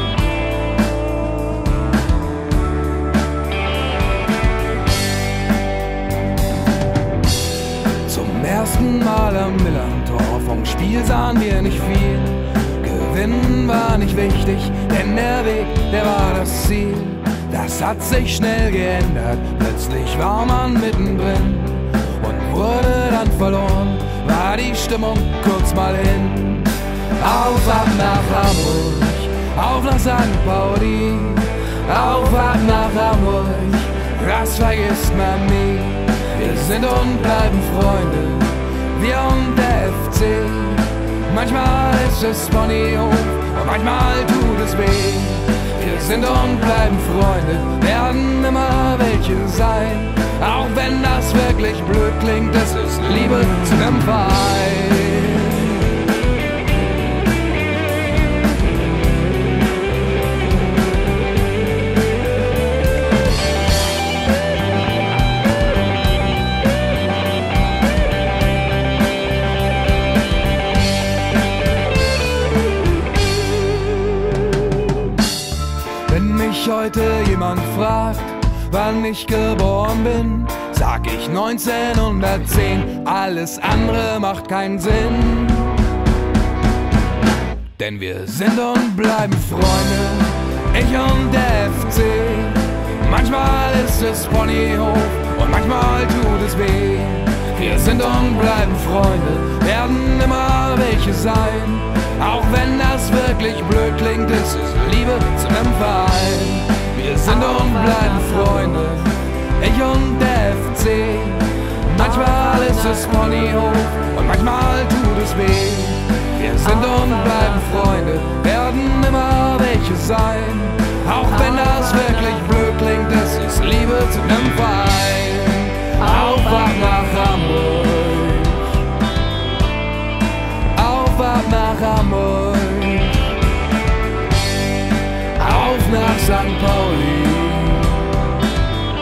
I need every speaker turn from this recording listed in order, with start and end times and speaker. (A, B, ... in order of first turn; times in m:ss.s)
0:08.0-0:55.8 A
1:16.0-1:25.9 A
1:27.8-2:08.8 A
2:10.7-2:13.3 A
2:15.3-2:18.2 A